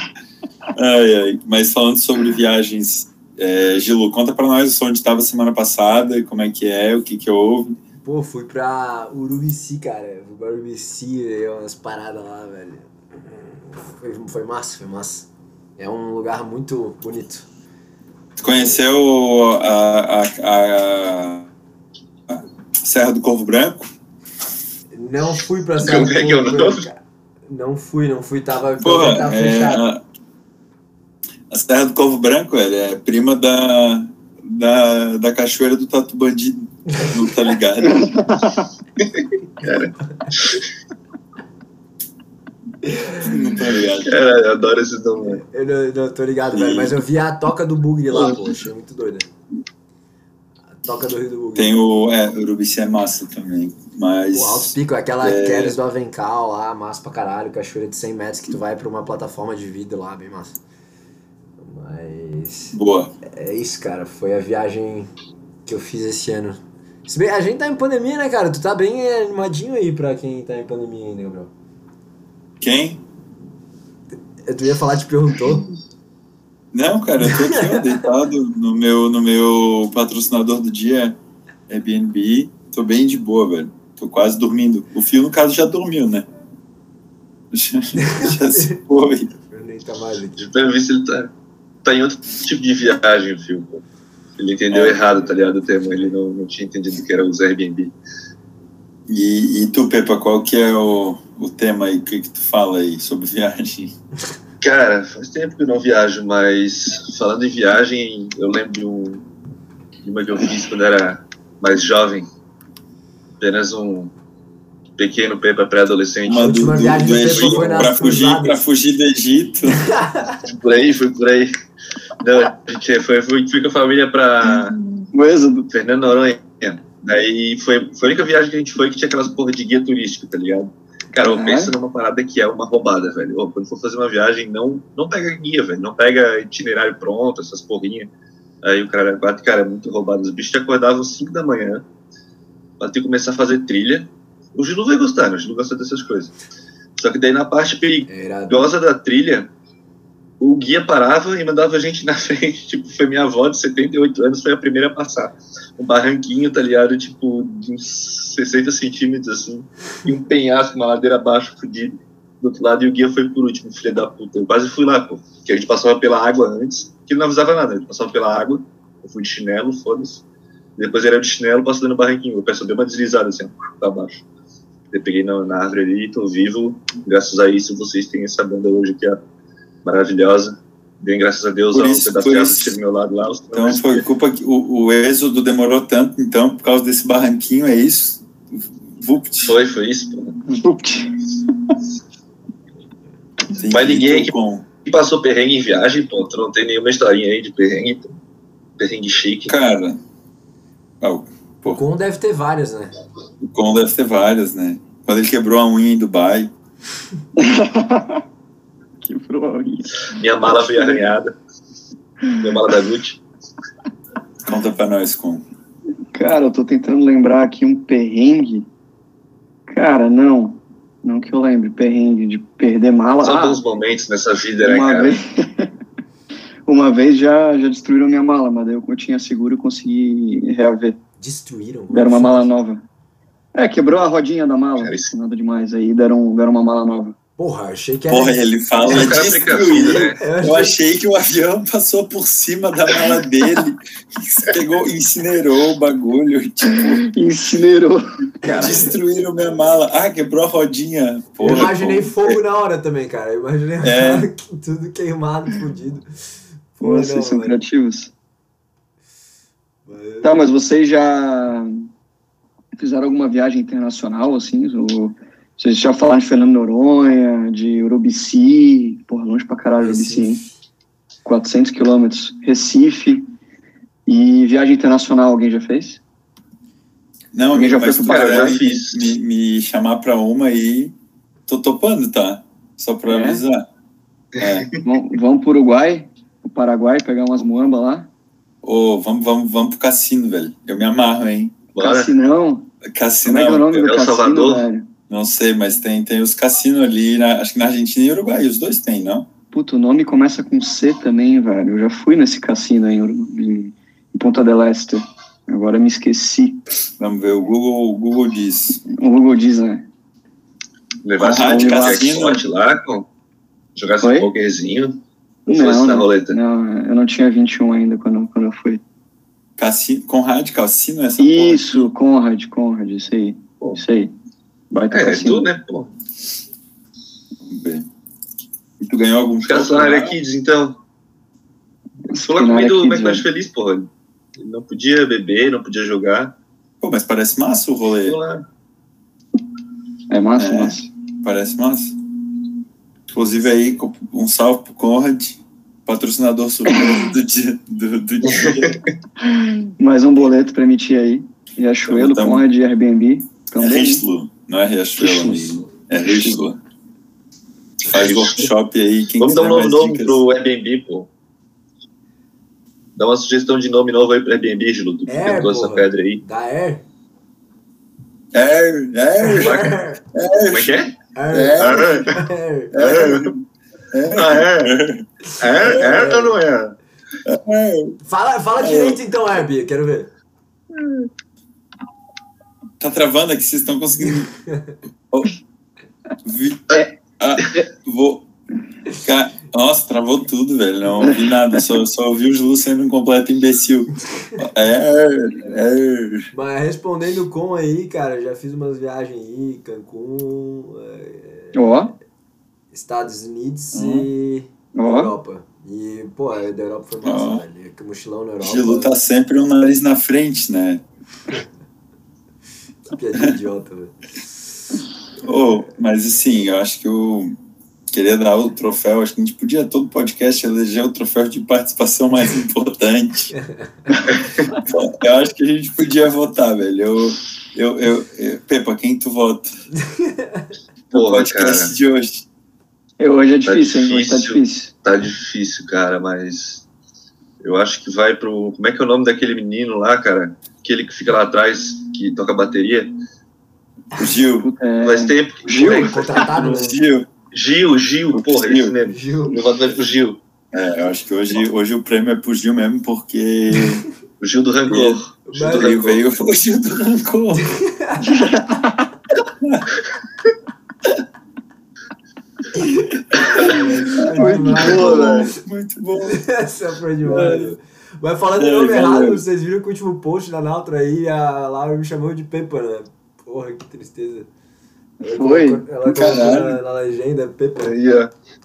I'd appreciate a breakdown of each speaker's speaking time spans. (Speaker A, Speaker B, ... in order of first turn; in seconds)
Speaker A: 0.8-7.8, 18.4-21.5, 22.3-23.9, 28.8-30.0, 31.5-38.0, 43.2-44.2, 46.5-47.0, 51.5-55.8, 62.7-63.1, 72.6-73.0, 76.7-81.2, 81.7-86.3, 87.5-89.3, 94.7-95.0, 99.1-103.9, 116.3-119.8, 181.7-182.8, 183.5-189.6, 193.5-194.7, 199.5-200.0, 201.0-201.8, 203.4-206.5, 214.4-215.4, 238.1-247.1, 248.4-252.4, 253.8-254.3, 277.3-280.9, 281.5-283.6, 284.4-284.7, 288.6-291.6, 292.9-293.7, 295.1-299.3, 307.0-308.8, 311.2-312.4, 319.6-321.9, 327.5-327.9, 328.8-330.2, 336.8-338.2, 340.4-341.9, 343.1-348.8, 351.9-352.4, 353.6-356.6, 357.9-360.2, 368.3-370.8, 371.3-372.0, 372.7-373.3, 373.9-376.1, 377.3-378.0, 378.6-379.0, 382.8-384.3, 386.2-388.3, 389.0-396.3, 403.7-404.1, 407.0-407.4, 408.4-410.8, 415.2-417.3, 417.9-423.3, 424.6-429.5, 430.9-432.3, 444.0-444.5, 446.1-447.1, 448.1-448.8, 450.5-453.8, 454.7-457.6, 464.1-466.2, 467.0-467.6, 468.3-469.2, 475.9-476.6
Speaker B: 8.0-17.5, 24.9-29.8, 45.3-49.3, 50.8-51.8, 54.3-60.6, 61.6-62.7, 63.2-65.1, 65.7-71.5, 74.4-75.7, 77.3-77.9, 88.0-88.8, 89.3-90.5, 116.3-118.6, 119.9-120.4, 148.1-148.7, 201.6-202.9, 231.2-232.5, 237.4-238.4, 240.2-240.8, 248.5-248.8, 251.4-256.0, 256.8-257.6, 259.9-260.5, 269.8-270.4, 365.1-366.9, 369.2-370.0, 371.1-372.7, 375.6-376.3, 378.0-380.1, 396.3-401.8, 402.7-408.9, 412.9-413.9, 430.0-430.4, 445.6-446.8, 448.9-449.4, 455.3-455.8, 457.8-458.1, 462.6-465.3, 466.1-474.3, 475.0-478.0
Speaker C: 25.8-26.9, 39.0-40.6, 44.0-45.4, 90.4-91.3, 91.8-93.8, 94.4-98.0, 104.6-109.2, 110.0-112.3, 113.4-114.1, 115.0-117.9, 120.5-121.5, 122.2-124.8, 125.7-138.1, 138.6-141.8, 142.8-146.3, 147.0-149.5, 150.4-170.2, 170.8-174.2, 174.9-179.2, 179.8-184.0, 189.4-190.4, 193.7-198.1, 198.8-199.6, 210.1-211.3, 212.4-213.2, 223.2-225.2, 234.8-235.1, 238.8-240.2, 278.1-279.1, 284.4-284.7, 291.8-292.1, 293.6-294.7, 311.0-313.1, 313.8-316.4, 324.9-325.9, 329.4-330.8, 332.1-336.4, 338.0-338.4, 348.2-348.8, 357.9-358.5, 359.2-361.1, 363.0-366.2, 369.4-369.7, 370.5-370.9, 371.6-372.1, 372.8-373.3, 374.1-374.7, 375.4-376.7, 380.8-381.1, 430.9-431.7, 433.5-436.6, 437.4-442.9, 444.8-446.6, 447.3-450.2, 454.2-456.0, 464.6-465.2, 477.6-478.1
Speaker D: 37.9-38.7, 125.0-125.7, 131.2-131.7, 190.5-191.2, 207.4-208.2, 209.0-211.1, 216.1-218.7, 219.7-223.6, 224.6-225.7, 226.7-231.0, 231.9-232.8, 233.6-237.2, 246.7-248.8, 256.8-258.1, 260.2-261.9, 262.8-270.4, 271.2-273.2, 274.1-276.0, 277.5-278.6, 283.1-283.4, 284.8-288.1, 291.8-292.7, 293.2-294.9, 299.5-306.6, 308.9-309.9, 311.4-312.0, 314.0-314.3, 315.5-318.8, 321.2-324.1, 324.7-325.5, 332.1-333.3, 340.1-340.9, 346.7-347.1, 349.2-354.0, 355.0-356.4, 401.5-401.9, 404.8-405.1, 433.0-434.7, 444.4-446.2, 458.1-458.7, 464.2-465.2, 475.0-475.6